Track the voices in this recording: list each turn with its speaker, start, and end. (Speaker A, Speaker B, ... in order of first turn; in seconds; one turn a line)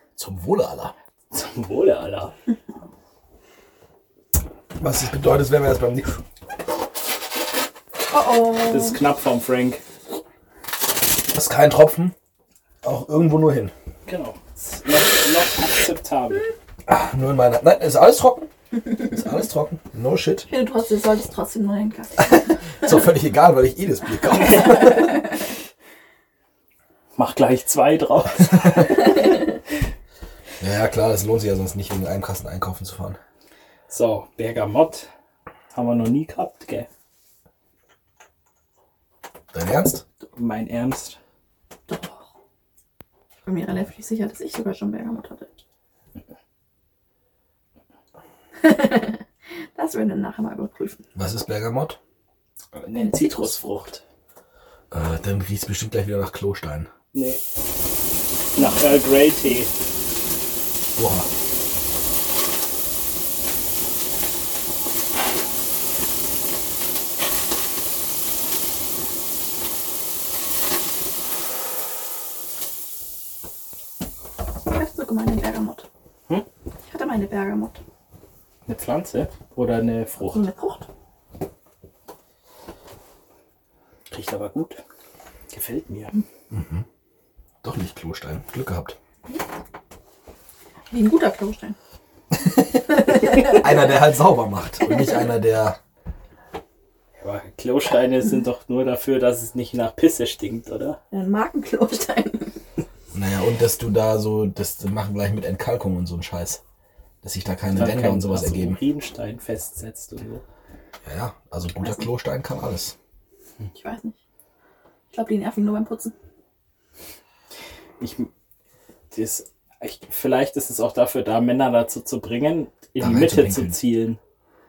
Speaker A: 0.1-0.9
Speaker B: 1.3-2.3
Speaker A: 4.8-6.1
Speaker C: 8.1-9.0
Speaker B: 8.6-9.8
Speaker A: 11.3-12.1
Speaker A: 12.8-13.7
Speaker B: 14.1-16.5
Speaker A: 16.9-20.5
Speaker C: 20.5-22.3
Speaker A: 22.2-25.3
Speaker B: 27.1-29.1
Speaker A: 30.6-33.2
Speaker B: 33.9-35.1
Speaker B: 35.7-36.9
Speaker A: 39.5-40.0
Speaker B: 40.3-41.2
Speaker C: 41.9-42.2
Speaker C: 43.4-45.5
Speaker C: 48.6-51.0
Speaker A: 51.1-52.0
Speaker B: 52.7-54.0
Speaker C: 52.9-53.8
Speaker A: 54.9-56.9
Speaker B: 57.1-57.4
Speaker C: 58.5-58.9
Speaker B: 58.5-59.7
Speaker A: 61.0-61.3
Speaker C: 74.7-75.8
Speaker C: 76.9-77.8
Speaker B: 78.7-80.5
Speaker C: 80.2-80.9
Speaker B: 84.1-84.8
Speaker B: 85.5-86.1
Speaker A: 86.5-86.8
Speaker A: 87.6-89.0
Speaker C: 90.9-91.8
Speaker A: 92.3-95.8
Speaker C: 93.0-93.7
Speaker B: 97.2-101.0
Speaker C: 101.1-102.5
Speaker A: 103.1-106.6
Speaker A: 107.2-108.8
Speaker B: 107.7-110.4
Speaker A: 111.0-112.9
Speaker C: 113.7-114.2
Speaker C: 115.1-116.1
Speaker B: 118.0-118.3
Speaker B: 119.1-124.2
Speaker A: 123.0-123.8